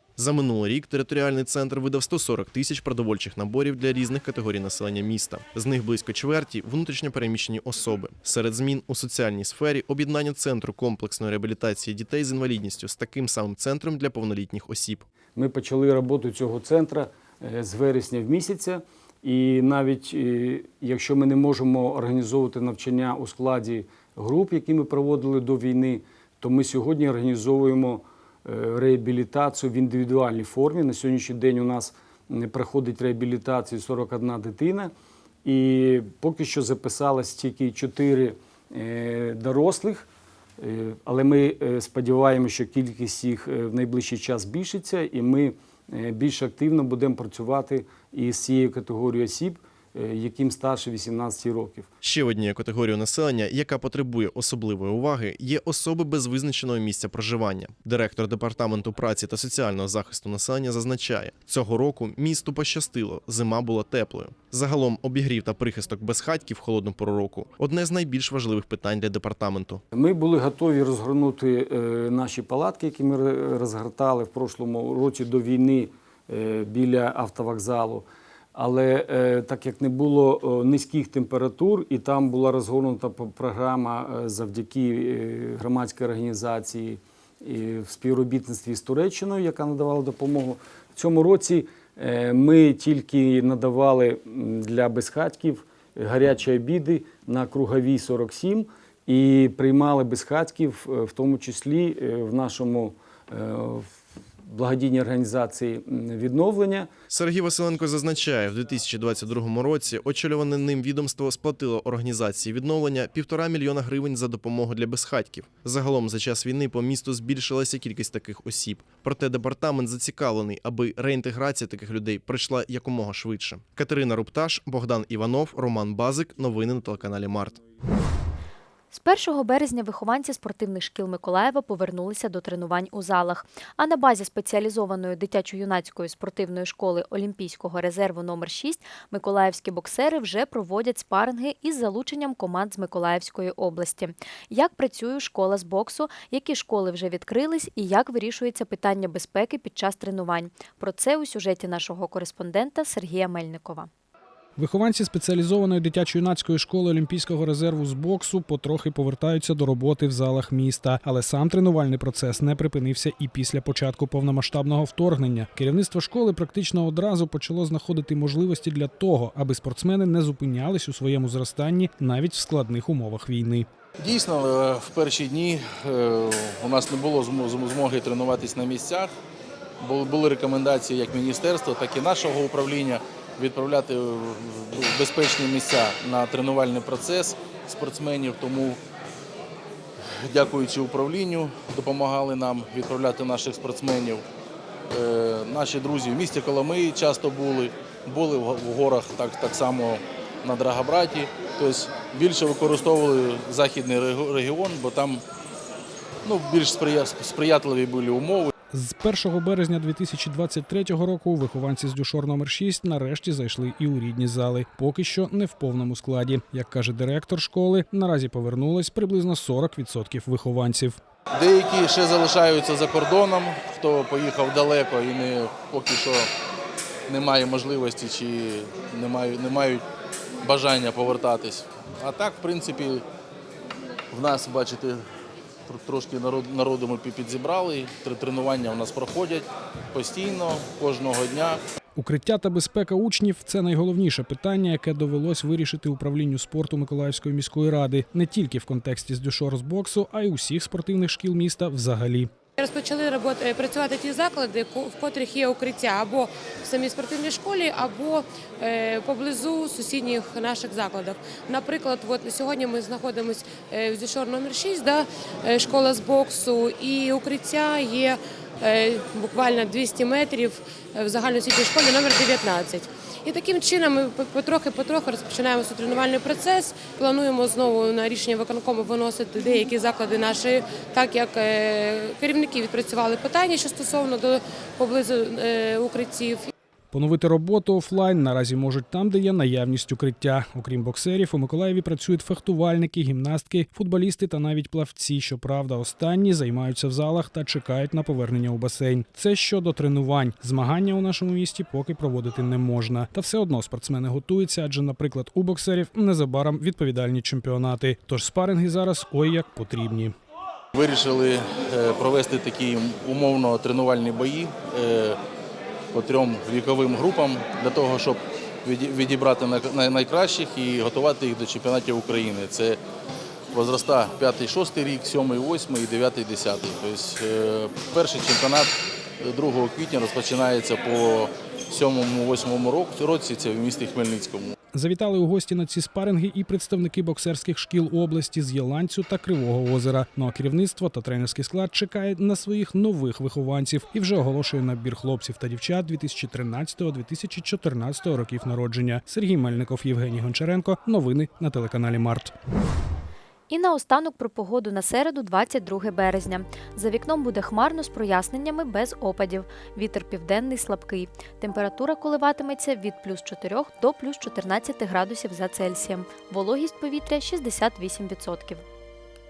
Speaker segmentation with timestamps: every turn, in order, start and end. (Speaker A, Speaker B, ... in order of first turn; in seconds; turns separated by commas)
Speaker A: 0.1-15.1, Speaker B: 15.3-34.9, Speaker B: 35.4-40.1, Speaker B: 40.6-51.9, Speaker A: 52.0-69.8, Speaker B: 69.9-103.9, Speaker B: 104.4-106.9, Speaker A: 107.1-127.6, Speaker C: 128.9-153.9, Speaker D: 154.6-173.7, Speaker E: 174.0-179.1, Speaker E: 179.8-188.8, Speaker E: 190.2-194.2, Speaker E: 194.9-205.2, Speaker E: 206.2-208.5, Speaker D: 208.7-221.0, Speaker E: 221.3-226.3, Speaker E: 227.1-229.8, Speaker E: 230.4-233.0, Speaker E: 234.1-235.0, Speaker E: 235.7-241.6, Speaker D: 241.9-252.3, Speaker F: 252.6-286.5, Speaker D: 286.9-310.1, Speaker E: 310.7-315.2, Speaker E: 315.9-322.8, Speaker E: 323.5-334.5, Speaker D: 334.7-352.3, Speaker C: 353.5-368.6